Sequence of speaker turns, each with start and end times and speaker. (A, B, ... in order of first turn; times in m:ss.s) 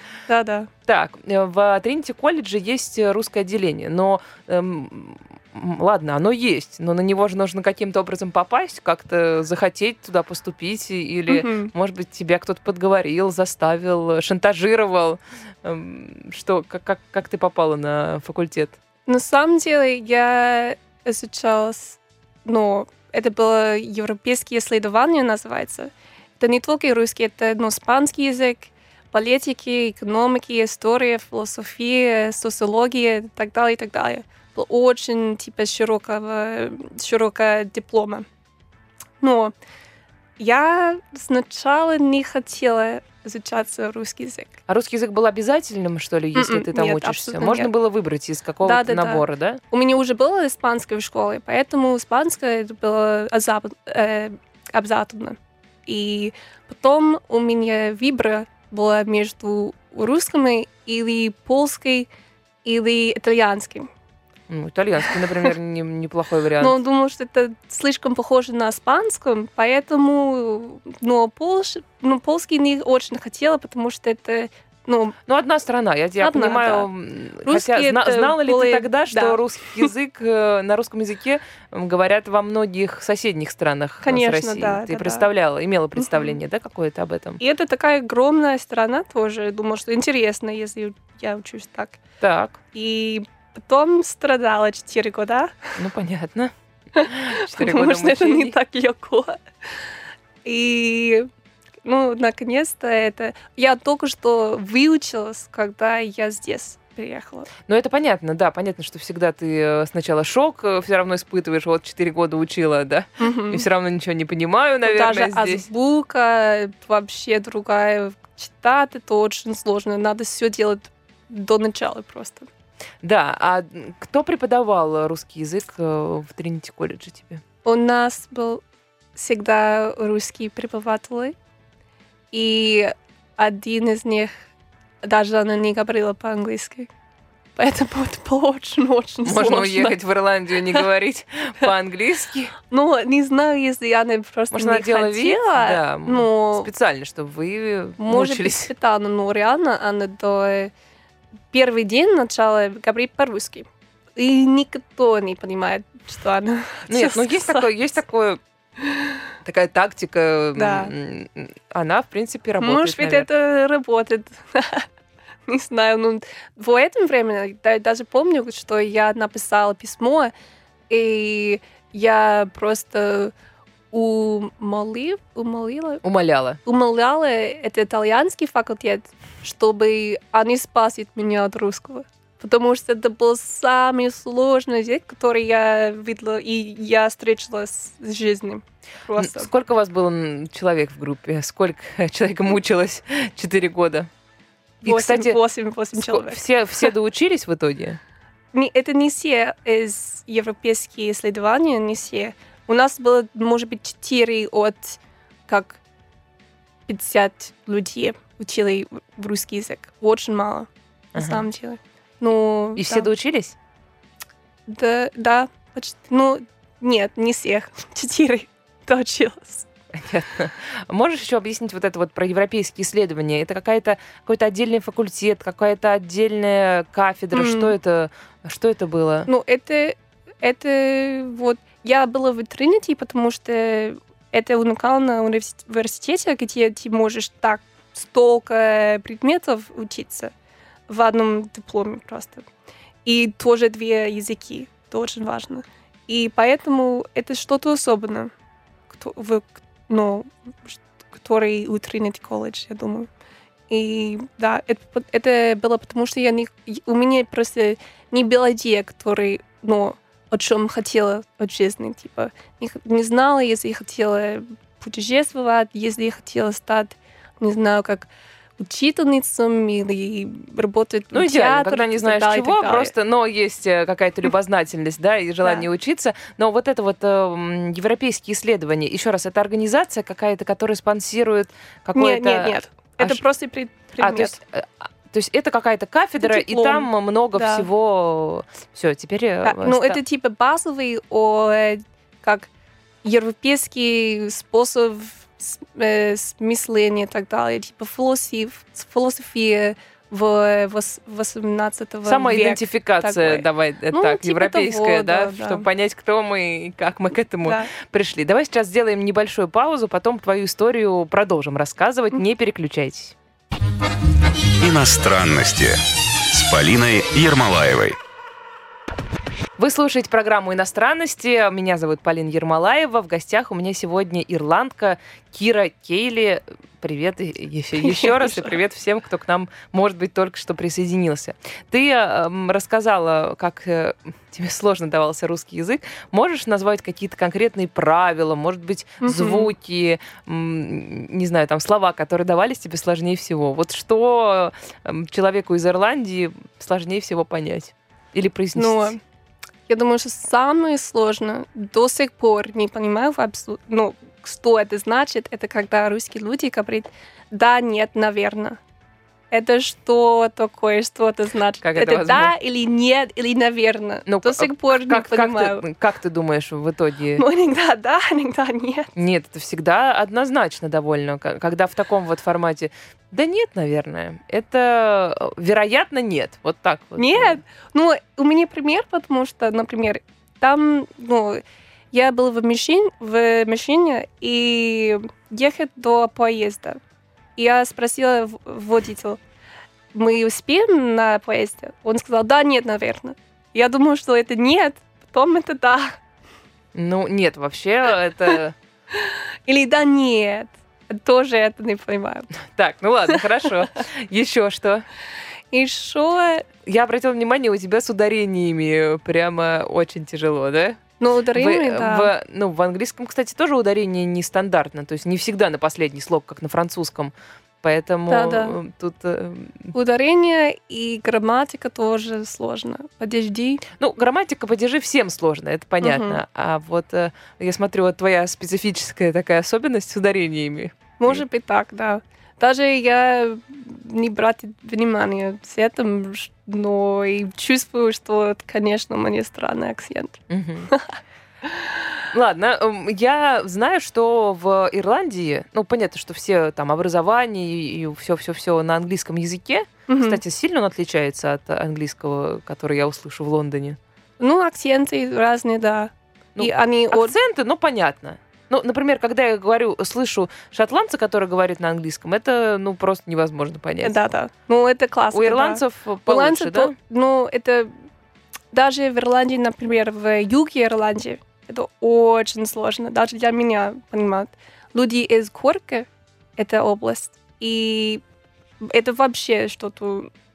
0:00.3-0:00.7 A
0:00.9-0:18.8 B
0:11.3-0:11.7 A
0:19.1-0:38.2 A
0:39.2-0:39.5 A
0:40.4-0:44.6 A
0:44.7-0:49.6 B
0:46.3-0:47.7 A
0:48.6-1:02.1 A
1:02.6-1:03.9 A
1:04.5-1:06.8 B
1:06.6-1:15.2 A
1:15.2-1:27.4 B
1:16.2-1:16.9 A
1:17.4-1:19.9 A
1:24.0-1:25.3 A
1:26.0-1:26.2 A
1:27.4-1:32.0 A
1:32.2-1:32.6 B
1:32.7-1:35.7 A
1:35.8-1:38.5 B
1:37.0-1:39.4 A
1:40.4-1:41.3 A
1:41.8-1:47.5 A
1:47.7-1:55.6 B
1:53.2-1:53.6 A
1:54.8-2:02.5 A
2:03.0-2:07.4 B
2:07.6-2:08.6 A
2:09.1-2:11.3 A
2:12.3-2:14.3 A
2:15.0-2:16.9 A
2:17.6-2:20.0 A
2:19.2-2:22.5 B
2:22.7-2:26.7 A
2:24.5-2:28.7 B
2:28.0-2:30.7 A
2:31.5-2:37.7 A
2:36.9-2:38.4 B
2:38.8-2:39.1 A
2:39.4-2:43.3 B
2:40.6-2:40.9 A
2:42.6-2:44.9 A
2:45.5-2:50.3 A
2:50.9-2:53.3 A
2:53.9-2:56.0 A
2:56.0-2:56.6 B
2:56.6-3:09.5 A
3:09.2-3:14.1 B
3:14.8-3:16.4 A
3:14.8-3:15.4 B
3:15.9-3:18.0 B
3:18.5-3:25.8 A
3:26.9-3:33.1 A
3:31.1-3:31.5 B
3:32.8-3:33.5 B
3:34.7-3:39.7 A
3:39.9-3:49.3 B
3:47.3-3:47.7 A
3:49.3-4:00.3 A
4:00.9-4:02.4 A
4:03.0-4:08.3 A
4:08.9-4:13.1 A
4:13.7-4:32.9 A
4:31.1-4:43.2 B
4:41.9-4:44.4 A
4:44.0-4:50.0 B
4:46.2-4:47.6 A
4:49.4-4:52.5 A
4:53.0-5:05.6 A
5:02.0-5:13.2 B
5:07.4-5:07.7 A
5:14.6-5:18.0 C
5:19.6-5:48.9 B
5:27.8-5:28.6 A
5:39.0-5:39.5 A
5:48.5-5:49.0 A
5:49.7-5:58.6 A
5:59.3-6:05.6 A
6:01.6-6:02.3 B
6:04.1-6:07.2 B
6:07.2-6:08.9 A
6:08.9-6:17.4 B
6:17.0-6:26.8 A
6:27.4-6:29.2 A
6:29.9-6:36.0 A
6:36.7-6:38.5 B
6:38.9-6:42.3 A
6:42.4-6:44.8 B
6:45.5-6:46.4 A
6:46.6-6:50.8 B
6:51.0-6:52.1 A
6:51.3-6:59.7 B
6:58.1-6:58.6 A
6:59.7-7:03.6 A
7:03.7-7:11.2 B
7:05.8-7:06.2 A
7:11.0-7:21.0 A
7:20.3-7:20.7 B
7:22.1-7:33.8 B
7:29.9-7:30.2 A
7:34.2-7:37.1 A
7:36.4-7:44.0 B
7:43.8-7:47.7 A
7:45.1-7:46.8 B
7:48.5-7:58.0 A
7:58.6-8:00.1 A